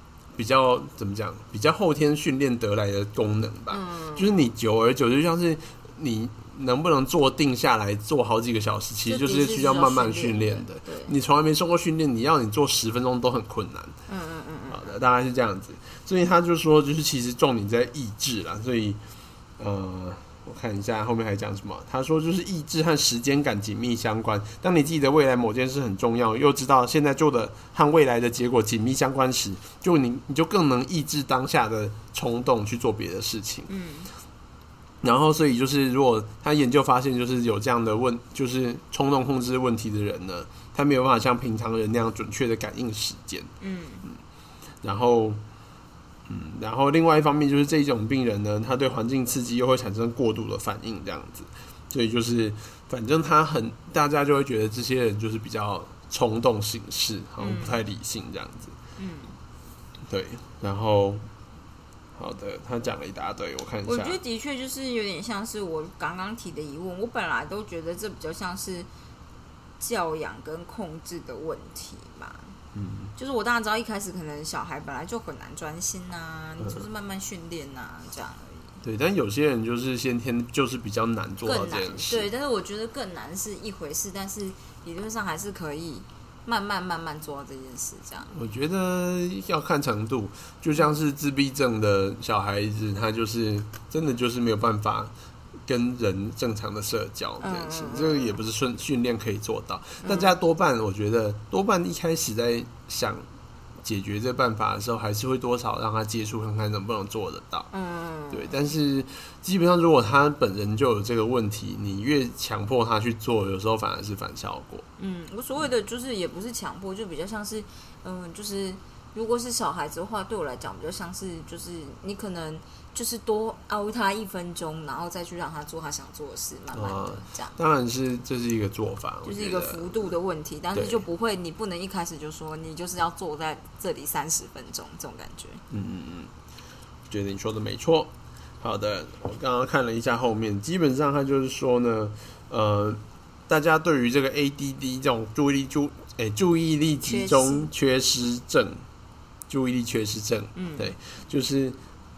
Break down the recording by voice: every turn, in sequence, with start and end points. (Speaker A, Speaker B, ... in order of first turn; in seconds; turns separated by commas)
Speaker A: 0.3-14.0, Speaker B: 3.7-4.5, Speaker B: 9.1-11.1, Speaker B: 14.1-14.9, Speaker A: 14.7-19.0, Speaker A: 19.6-33.7, Speaker B: 33.7-34.1, Speaker A: 35.0-43.5, Speaker B: 43.6-44.1, Speaker A: 44.8-45.4, Speaker A: 46.3-58.8, Speaker B: 57.4-57.8, Speaker B: 59.0-59.4, Speaker A: 60.1-61.2, Speaker A: 62.2-64.2, Speaker B: 63.9-68.9, Speaker B: 69.8-72.5, Speaker A: 72.7-73.1, Speaker B: 73.2-78.8, Speaker A: 78.8-82.3, Speaker B: 81.5-88.3, Speaker A: 88.3-95.1, Speaker A: 95.7-103.2, Speaker B: 97.4-98.4, Speaker B: 100.0-100.3, Speaker A: 103.8-107.7, Speaker B: 107.7-108.6, Speaker A: 108.3-114.9, Speaker B: 115.0-127.6, Speaker A: 126.7-130.1, Speaker B: 129.2-135.6, Speaker A: 130.7-131.0, Speaker A: 135.7-136.3, Speaker A: 137.1-148.8, Speaker B: 147.1-147.7, Speaker A: 149.5-151.8, Speaker B: 150.6-150.9